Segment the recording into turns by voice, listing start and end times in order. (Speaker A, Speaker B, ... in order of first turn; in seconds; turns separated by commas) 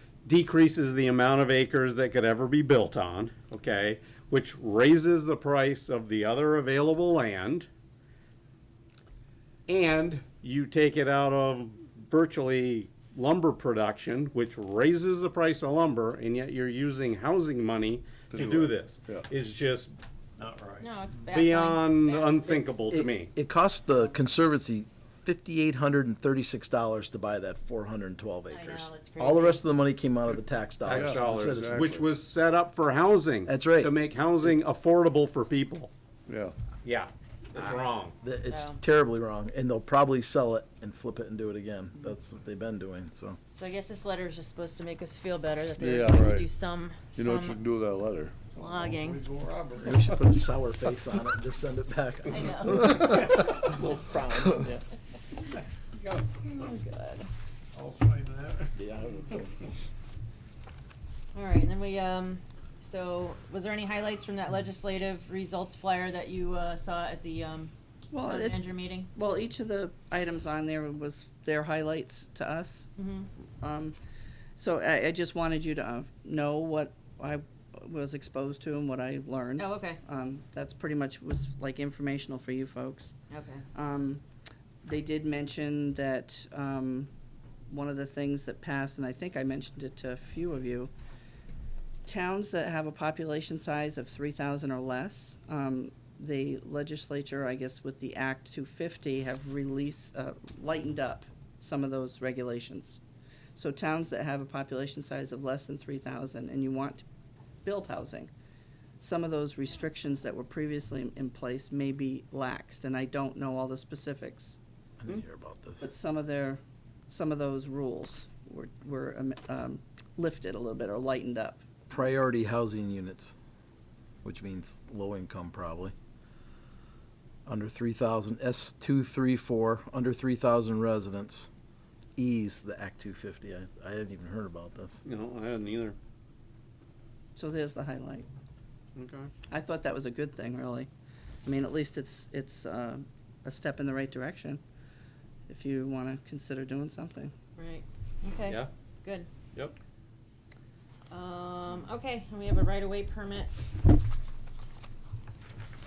Speaker A: 0.2-7.7, Speaker A: 9.7-20.0, Speaker B: 18.3-19.3, Speaker C: 20.4-20.9, Speaker D: 20.8-22.6, Speaker A: 21.3-23.3, Speaker E: 22.9-31.9, Speaker D: 28.5-29.6, Speaker A: 30.8-35.9, Speaker B: 30.9-32.1, Speaker E: 33.5-34.5, Speaker B: 36.3-36.5, Speaker A: 36.8-38.1, Speaker E: 38.2-43.4, Speaker D: 38.5-38.8, Speaker D: 43.5-47.6, Speaker B: 45.8-46.5, Speaker B: 47.1-48.5, Speaker C: 48.5-50.3, Speaker D: 48.5-49.2, Speaker E: 49.8-54.8, Speaker D: 52.3-53.2, Speaker C: 53.0-53.5, Speaker C: 56.0-56.2, Speaker D: 56.4-57.3, Speaker C: 57.7-58.8, Speaker E: 58.8-59.5, Speaker D: 61.3-69.1, Speaker F: 68.1-72.9, Speaker D: 73.0-73.3, Speaker F: 73.6-74.0, Speaker F: 74.5-83.2, Speaker D: 79.6-80.0, Speaker D: 83.3-83.6, Speaker F: 83.7-84.2, Speaker F: 84.8-87.1, Speaker F: 87.7-90.9, Speaker F: 92.0-103.0, Speaker F: 103.5-107.0, Speaker F: 107.6-108.3, Speaker F: 109.0-114.6, Speaker E: 115.0-115.9, Speaker F: 115.8-121.6, Speaker E: 121.9-123.3, Speaker E: 124.2-125.9, Speaker E: 127.5-131.5, Speaker E: 132.2-135.0, Speaker A: 135.0-136.0, Speaker F: 137.3-138.3, Speaker A: 138.9-139.3, Speaker F: 139.5-140.9, Speaker F: 141.4-144.6, Speaker F: 145.5-147.3, Speaker D: 147.6-149.3, Speaker D: 151.1-153.5